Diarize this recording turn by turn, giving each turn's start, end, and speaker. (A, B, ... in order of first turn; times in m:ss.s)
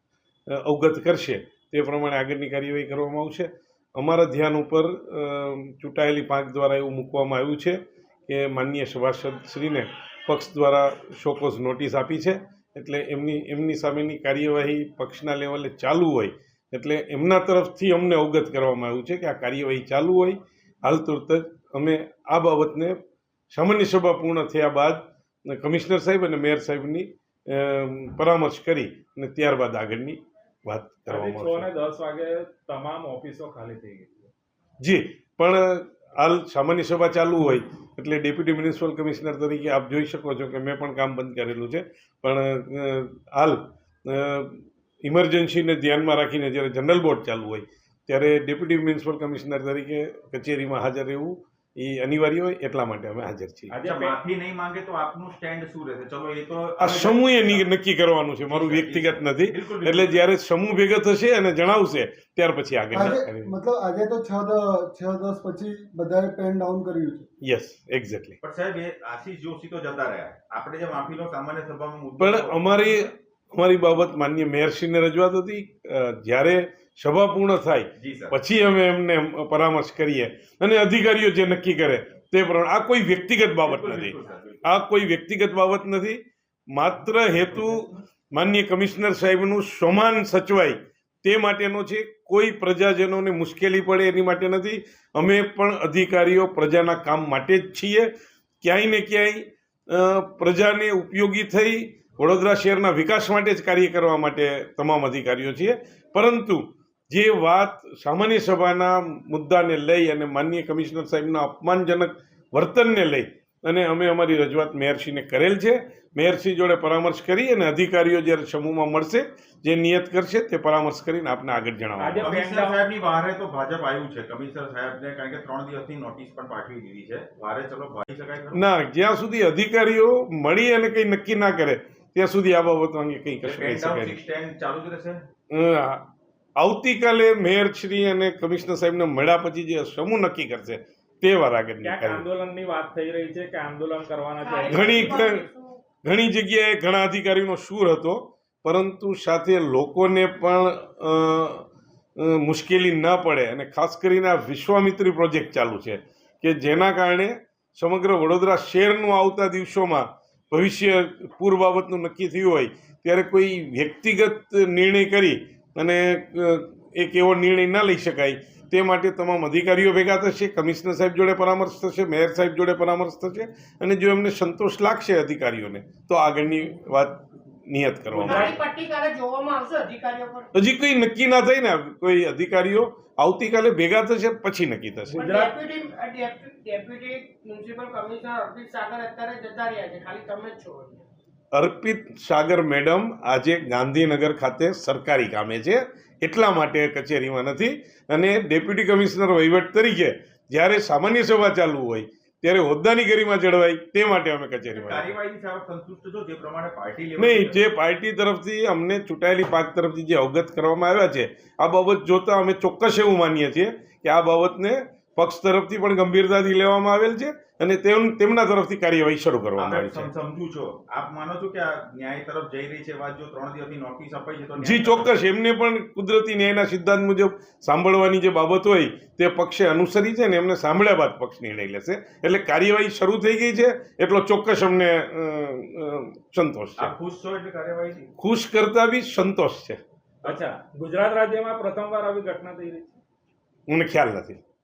0:00.5-0:23.0 A
0:23.5-0:31.7 A
0:31.1-0:34.3 B
0:34.8-0:53.7 A
0:53.7-0:54.2 B
0:53.8-0:57.7 C
0:56.8-1:03.5 A
0:58.5-1:00.2 C
1:02.9-1:07.3 D
1:07.4-1:08.4 A
1:08.4-1:12.6 C
1:12.2-1:26.2 A
1:18.0-1:18.4 C
1:23.6-1:24.7 C
1:26.7-2:02.3 A
2:02.0-2:02.9 B
2:02.2-2:08.6 C
2:08.5-2:14.2 A
2:13.4-2:15.2 C
2:15.5-2:22.2 A
2:21.8-2:25.2 B
2:24.4-2:25.8 E
2:24.7-2:25.5 A
2:26.0-2:31.7 A
2:32.2-2:58.6 A
2:58.1-2:58.6 B
2:58.2-3:00.5 E
3:00.5-3:05.2 A
3:05.1-3:05.6 B
3:05.2-3:11.1 E
3:11.5-3:25.1 A
3:24.8-3:27.6 C
3:27.2-3:40.1 A
3:39.6-3:45.1 C
3:44.6-3:56.9 A
3:56.8-3:58.1 C
3:58.2-3:59.8 A
4:00.2-4:03.0 B
4:03.7-4:04.4 A